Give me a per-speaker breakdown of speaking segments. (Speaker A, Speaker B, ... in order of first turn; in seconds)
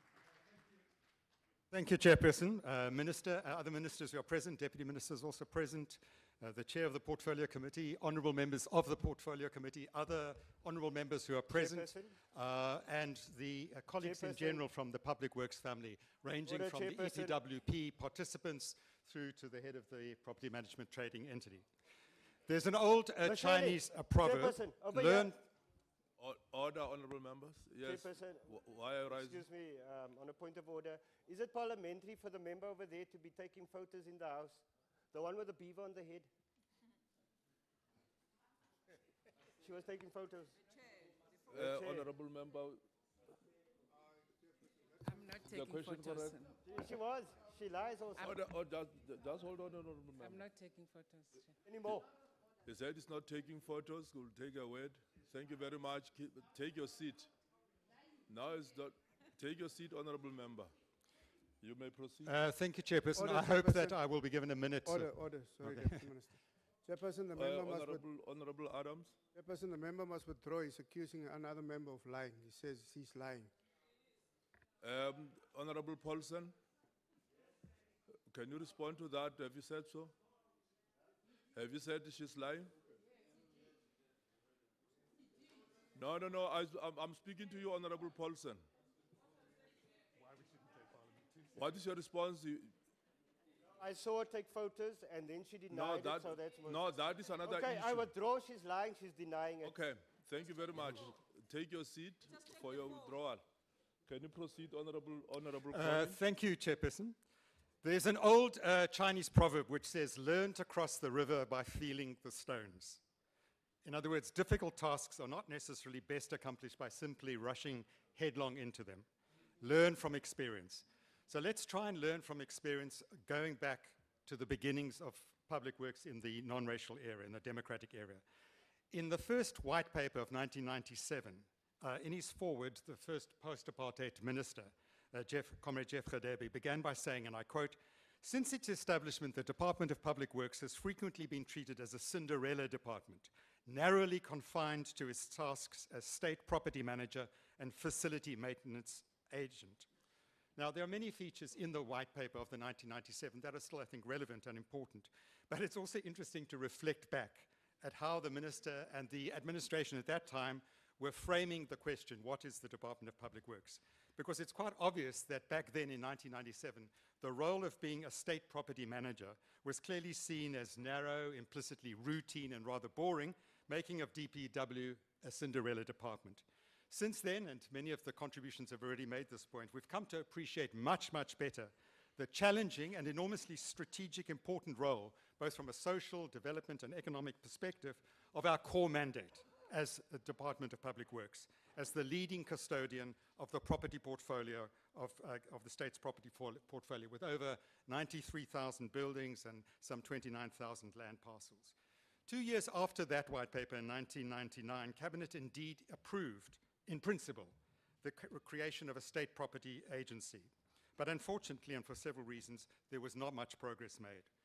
Speaker A: 1.7-21.6, 22.5-25.4, 62.2-66.1, 90.2-91.7, 105.7-107.2, 107.8-113.0, 113.8-119.0, 119.6-128.2, 128.9-149.8, 150.6-201.8, 202.3-214.3
Speaker B: 11.5-12.2, 14.0-14.6, 16.4-17.4, 23.2-25.3, 27.8-28.5, 29.1-36.3, 39.6-40.7, 41.5-42.1, 46.6-48.3, 51.6-52.1, 93.8-99.7
Speaker C: 26.2-29.4, 41.5-42.8, 45.4-46.5, 48.2-50.4, 52.6-57.3, 58.3-60.7, 61.6-62.3, 67.3-69.1, 74.8-76.5, 78.3-80.1, 81.5-82.7, 85.9-88.6, 91.6-92.7, 95.7-98.1, 99.6-103.4, 104.1-106.2
Speaker D: 45.0-46.5, 50.2-51.5
Speaker E: 63.1-64.0, 64.8-68.0, 69.3-73.5